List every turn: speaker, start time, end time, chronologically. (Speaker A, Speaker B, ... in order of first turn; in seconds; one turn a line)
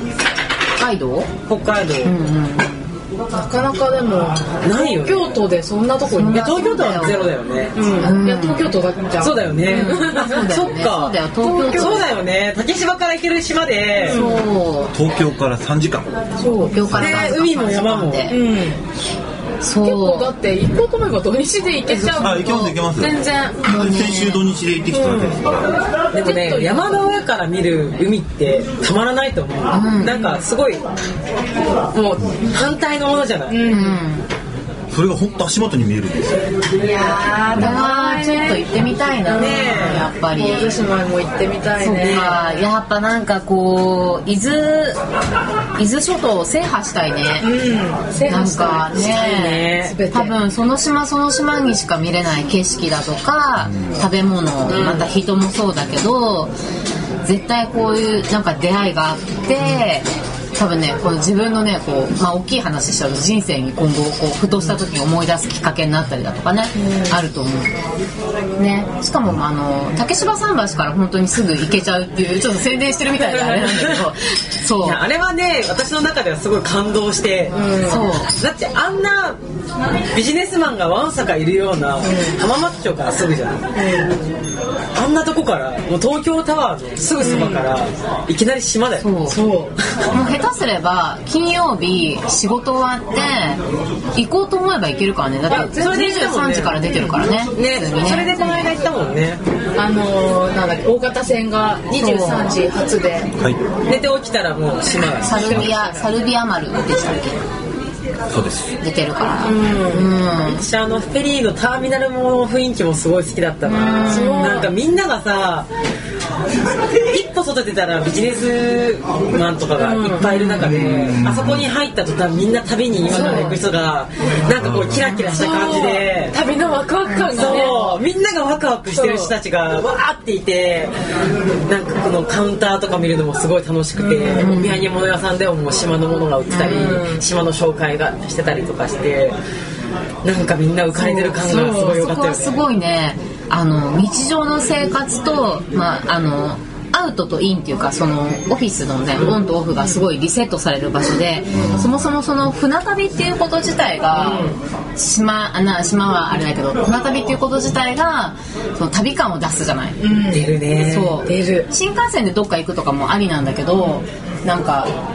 Speaker A: 0.8-1.3
Speaker B: 1.4-2.2
Speaker A: 2.0-2.9
Speaker C: 3.3-7.0
Speaker B: 4.6-5.4
Speaker A: 6.1-7.3
Speaker B: 6.2-8.0
Speaker C: 7.7-10.4
Speaker A: 8.0-8.7
Speaker B: 9.2-11.2
Speaker A: 9.7-12.1
Speaker C: 11.4-12.0
Speaker B: 11.7-14.2
Speaker C: 14.0-14.4
Speaker A: 14.1-14.9
Speaker D: 14.9-16.3
Speaker C: 16.4-16.9
Speaker A: 16.7-18.4
Speaker B: 16.9-18.4
Speaker D: 17.0-17.3
Speaker C: 18.3-18.8
Speaker A: 19.6-20.3
Speaker C: 19.8-23.6
Speaker D: 22.1-25.7
Speaker A: 22.3-22.7
Speaker A: 23.6-24.4
Speaker C: 24.9-25.4
Speaker B: 26.1-30.8
Speaker C: 26.1-27.1
Speaker A: 29.7-30.1
Speaker C: 30.0-30.4
Speaker B: 31.9-33.8
Speaker C: 33.5-34.0
Speaker A: 33.7-34.2
Speaker D: 34.9-36.5
Speaker C: 36.8-38.6
Speaker A: 37.5-40.8
Speaker C: 39.3-42.4
Speaker B: 39.3-40.1
Speaker A: 41.8-45.0
Speaker B: 42.0-42.4
Speaker A: 45.8-47.5
Speaker C: 47.4-49.0
Speaker A: 48.2-56.5
Speaker B: 48.9-49.9
Speaker C: 49.8-50.4
Speaker D: 53.6-54.0
Speaker B: 54.7-55.0
Speaker A: 57.2-67.7
Speaker C: 66.8-67.1
Speaker A: 68.6-75.0
Speaker B: 73.2-74.0
Speaker B: 74.8-77.6
Speaker C: 77.5-78.1
Speaker A: 77.8-78.3
Speaker B: 78.3-79.4
Speaker B: 80.1-83.7
Speaker C: 82.0-82.3
Speaker C: 83.7-84.1
Speaker B: 84.9-89.1
Speaker C: 87.2-87.7
Speaker A: 89.0-89.4
Speaker C: 89.3-89.7
Speaker A: 90.1-93.6
Speaker A: 94.1-98.8
Speaker C: 95.5-96.3
Speaker B: 95.5-96.9
Speaker C: 96.8-97.2
Speaker B: 97.5-99.4
Speaker C: 99.8-103.3
Speaker A: 102.0-102.5
Speaker B: 103.9-105.7
Speaker A: 105.2-107.4
Speaker C: 105.3-106.1
Speaker D: 105.4-105.7
Speaker D: 108.3-108.8
Speaker A: 108.8-110.6
Speaker C: 109.4-110.1
Speaker B: 110.5-115.7
Speaker A: 113.6-114.6
Speaker C: 114.0-114.7
Speaker B: 117.0-126.3
Speaker C: 119.8-120.5
Speaker A: 120.2-120.6
Speaker D: 120.6-121.7
Speaker C: 123.1-123.6
Speaker D: 124.6-125.2
Speaker A: 125.1-125.5
Speaker C: 125.3-128.0
Speaker B: 127.3-130.9
Speaker C: 128.9-129.3
Speaker B: 131.7-139.4
Speaker C: 134.0-134.5
Speaker A: 134.4-134.8
Speaker A: 136.5-137.0
Speaker C: 136.6-137.2
Speaker B: 140.2-142.6
Speaker C: 140.9-142.0
Speaker A: 141.2-160.0
Speaker C: 149.8-150.0
Speaker D: 151.5-152.1
Speaker C: 154.2-154.5
Speaker B: 154.2-154.5
Speaker C: 160.0-160.5
Speaker B: 160.3-161.2
Speaker A: 160.7-164.9
Speaker C: 161.2-161.7